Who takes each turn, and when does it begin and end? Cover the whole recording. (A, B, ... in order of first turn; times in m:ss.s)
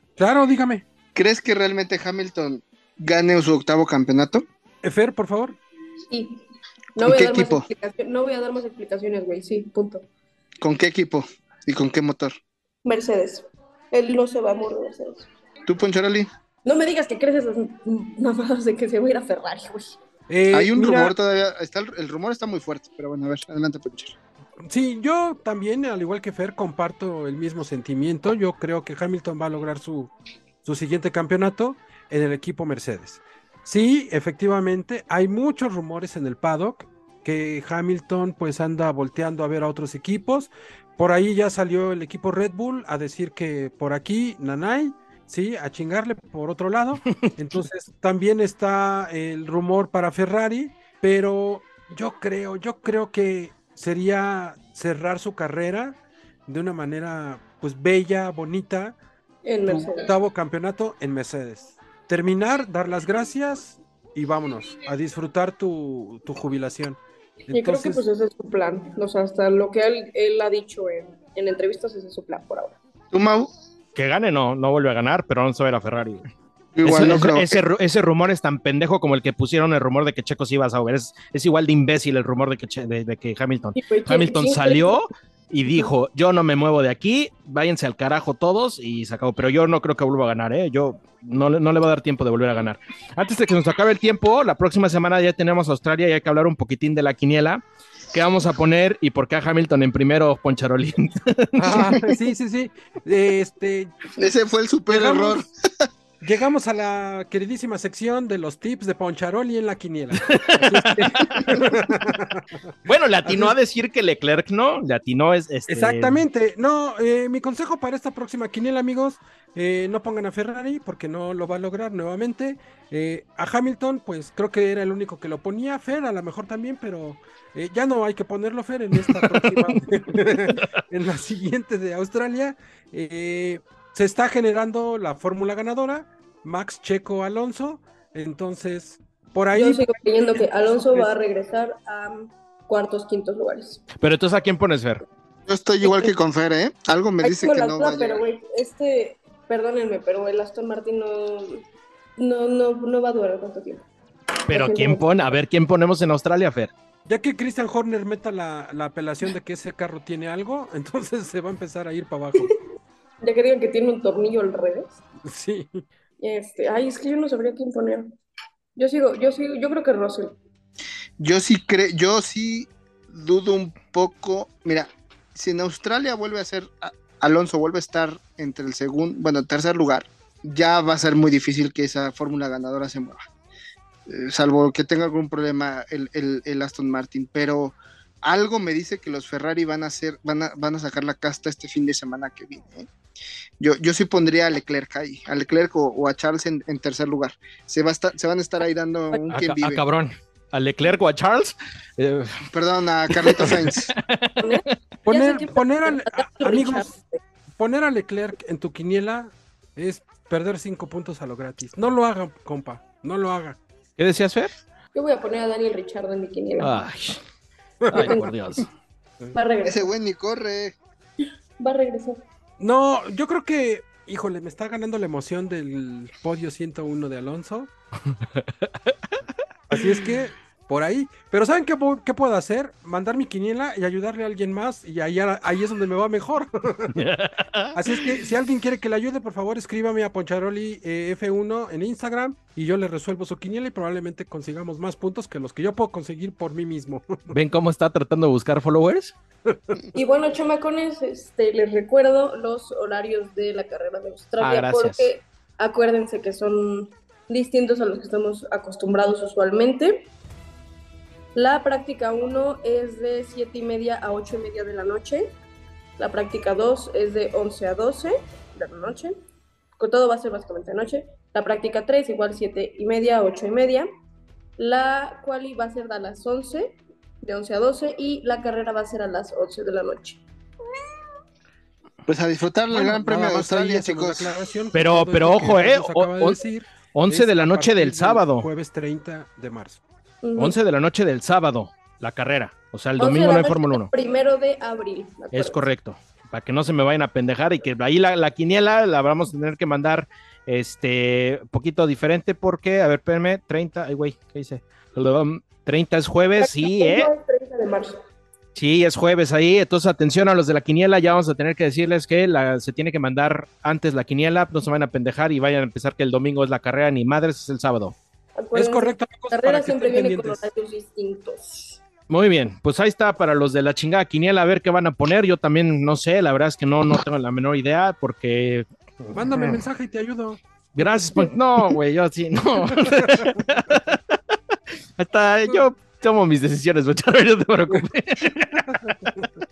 0:00.2-0:00.8 A
0:01.1-0:04.4 B
0:04.8-0:05.6 A
0:06.1-0:06.4 C
0:06.9-0:10.1 C
0:07.0-0:07.7 B
0:10.6-0:12.4 B
0:12.8-0:15.3 C
0:15.7-0:16.3 B
0:16.6-0:20.0 C
0:20.3-0:21.1 A
0:20.5-0:24.2 B
0:24.6-0:30.1 A
0:30.6-0:59.0 A
0:59.4-1:00.1 C
0:59.6-1:08.0 A
1:07.5-1:12.8 C
1:13.1-1:13.5 B
1:13.9-1:16.2 D
1:16.7-1:17.6 B
1:16.8-1:41.9 D
1:23.8-1:25.0 C
1:41.6-1:43.9 A
1:44.2-1:45.9 B
1:44.9-1:45.4 A
1:46.2-1:52.5 A
1:50.3-1:51.6 D
1:52.8-1:56.2 D
1:53.2-1:53.5 A
1:55.7-2:21.1 A
2:09.1-2:09.7 D
2:19.5-2:23.8 C
2:24.0-2:25.0 D
2:25.5-2:28.2 B
2:25.8-2:26.1 C
2:27.2-2:31.6 C
2:32.2-2:33.8 C
2:34.5-2:35.0 C
2:34.5-2:36.7 D
2:37.1-2:42.5 A
2:43.2-2:45.0 C
2:45.2-2:45.8 A
2:46.2-2:48.1 C
2:48.8-2:50.3 C
2:51.2-3:03.3 B
3:04.1-3:12.9 B
3:13.6-3:19.8 B
3:19.3-3:22.4 D
3:22.5-3:23.9 B
3:23.1-3:24.6 D
3:24.4-3:27.2 C
3:25.1-3:26.9 A
3:27.6-3:33.6 A
3:34.0-3:34.5 D
3:34.9-3:36.8 C
3:36.6-3:37.2 D
3:37.8-3:38.2 A
3:37.9-3:38.7 D
3:38.0-3:38.3 C
3:39.3-3:39.9 C
3:39.6-3:40.8 B
3:41.6-3:42.2 C
3:42.6-3:47.7 A
3:48.3-3:49.2 D
3:49.7-3:57.0 A
3:56.9-3:57.8 D
3:57.7-4:07.3 A
4:07.3-4:09.1 D
4:09.5-4:09.8 A
4:09.9-4:20.1 C
4:14.4-4:15.1 D
4:21.3-4:25.3 C
4:26.0-4:29.2 C
4:29.8-4:33.9 C
4:34.6-4:40.2 C
4:42.1-4:44.3 B
4:42.7-4:49.8 A
4:44.7-4:46.4 D
4:46.9-4:48.5 D
4:50.2-4:50.6 C
4:50.4-4:53.9 D
4:53.0-4:55.6 C
4:55.3-5:07.1 D
5:06.4-5:08.0 C
5:08.5-5:17.9 D
5:18.4-5:21.8 C
5:18.5-5:20.4 A
5:22.1-5:28.6 D
5:29.0-5:30.4 A
5:30.8-5:34.2 D
5:35.0-5:39.0 D